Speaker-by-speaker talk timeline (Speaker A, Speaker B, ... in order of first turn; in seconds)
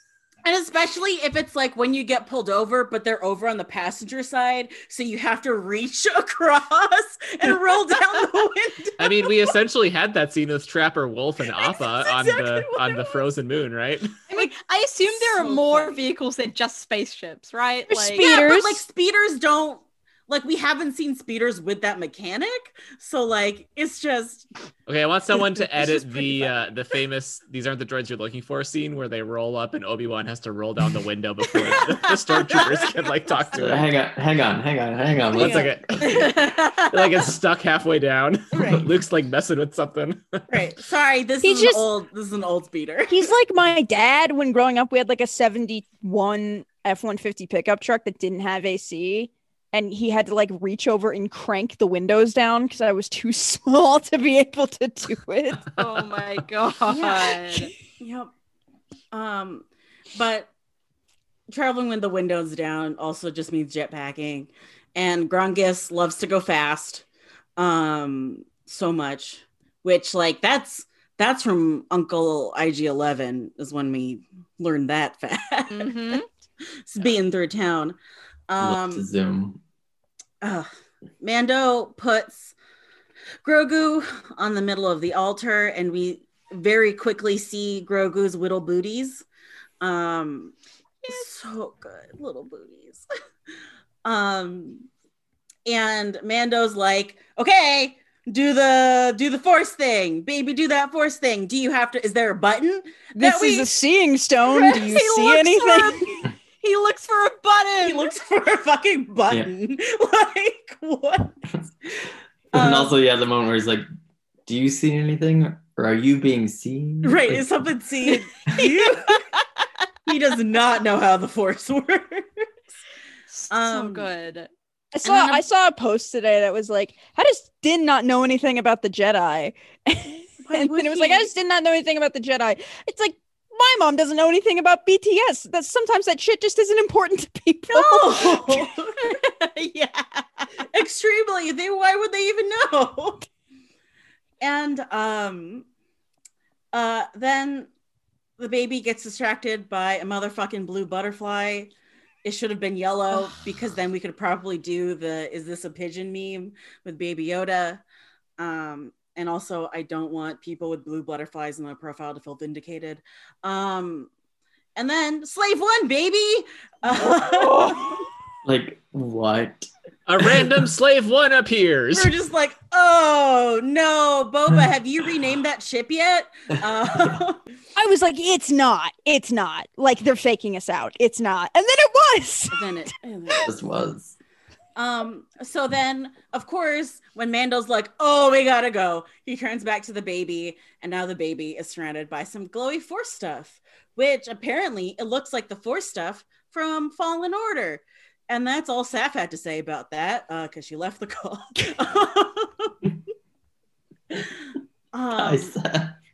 Speaker A: 0.5-9.4, 11.5-13.2, 15.1-15.9, 18.2-24.5, 25.8-26.5, 31.6-33.6, 35.4-37.2, 38.5-39.0, 40.5-43.3, 56.9-57.4, 58.0-58.3, 59.1-60.5, 61.5-67.0, 67.6-76.2, 76.9-78.0, 78.5-79.0, 80.4-80.7, 81.2-82.5, 83.4-89.2, 89.8-90.5, 91.1-93.0, 94.0-94.9, 95.7-103.7, 107.8-111.4, 112.5-113.0, 117.0-119.2, 120.1-122.3, 123.5-124.1, 125.0-125.4, 130.4-131.3, 137.7-139.2, 140.7-143.3, 144.4-145.7, 146.7-147.7, 148.4-151.7, 152.2-157.8, 158.4-164.1, 164.8-168.0, 171.9-177.4, 182.5-183.5, 184.8-202.7, 204.9-205.5
Speaker B: 9.0-14.2, 24.9-33.9, 35.3-40.6, 170.1-172.1
Speaker C: 14.3-18.3, 55.8-57.7, 75.7-76.3, 104.5-108.1, 118.5-119.4, 123.3-124.5, 139.0-140.5
Speaker D: 17.9-18.9, 41.4-41.9, 43.1-55.7, 103.2-106.2, 124.9-138.7, 177.8-182.7
Speaker E: 33.5-35.8, 78.6-79.6, 112.5-113.9, 114.5-117.6, 167.0-169.7, 170.2-170.5, 183.4-184.2, 205.1-205.9